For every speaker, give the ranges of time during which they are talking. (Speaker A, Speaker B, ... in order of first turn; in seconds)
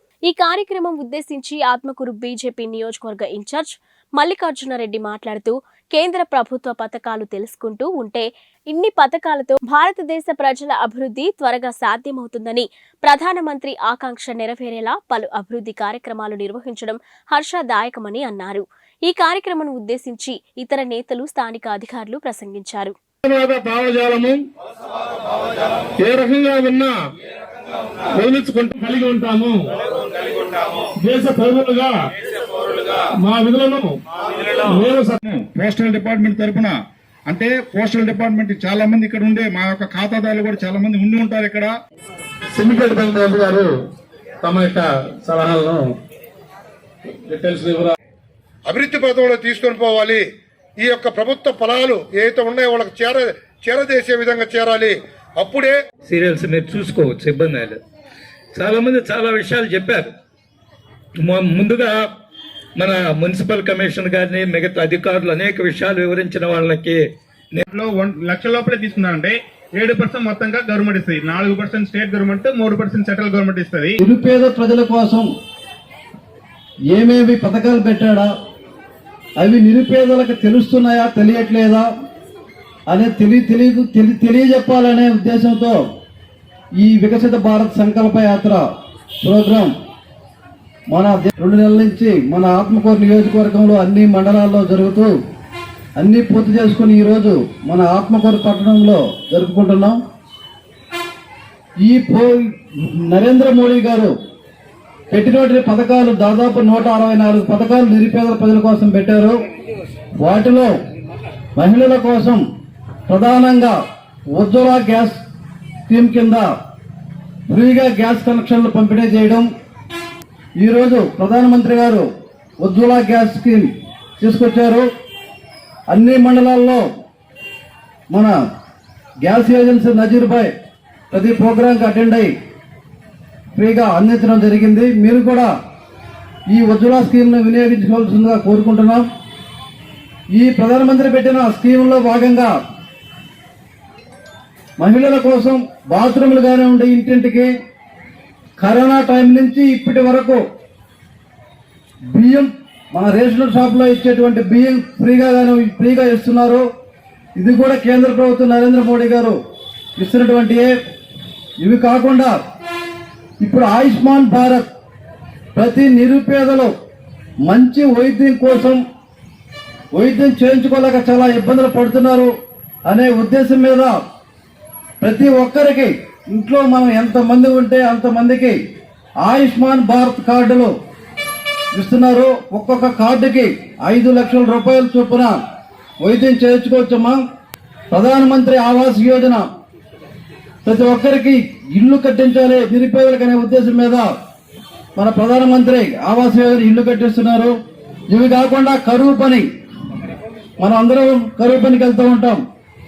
Speaker A: 0.3-22.9
Speaker B: 23.2-24.5, 26.0-27.0, 28.1-29.6, 31.0-31.9, 33.2-34.0, 34.6-35.2, 42.5-43.7, 44.4-45.9, 47.2-47.9
Speaker C: 35.2-36.7, 37.3-41.7
Speaker D: 48.7-50.2, 50.8-55.7
Speaker E: 56.0-57.8, 58.5-60.1, 61.2-61.9, 62.8-67.0
Speaker F: 67.7-74.0
Speaker G: 74.0-75.3, 76.9-78.3, 79.4-81.8, 82.9-85.8, 86.8-88.6, 89.2-89.7, 90.9-95.1, 96.0-100.0, 101.8-102.5, 103.1-104.1, 105.1-109.4, 110.2-110.7, 111.5-112.4, 113.1-113.8, 114.3-115.2, 115.9-116.5, 117.5-119.5, 120.6-122.0, 122.6-124.8, 125.9-126.8, 128.1-128.4, 129.2-130.5, 131.1-132.3, 133.5-135.5, 136.5-139.0, 140.3-142.5, 144.8-147.5, 148.6-150.4, 152.1-156.6, 157.4-159.3, 160.0-160.7, 161.6-162.3, 163.4-164.7, 165.6-166.7, 167.5-168.8, 169.9-172.3, 172.9-174.0, 175.0-178.6, 179.2-180.7, 181.7-185.4, 186.0-187.2, 187.9-189.4, 190.6-194.1, 194.9-197.5, 198.1-199.4, 200.6-202.4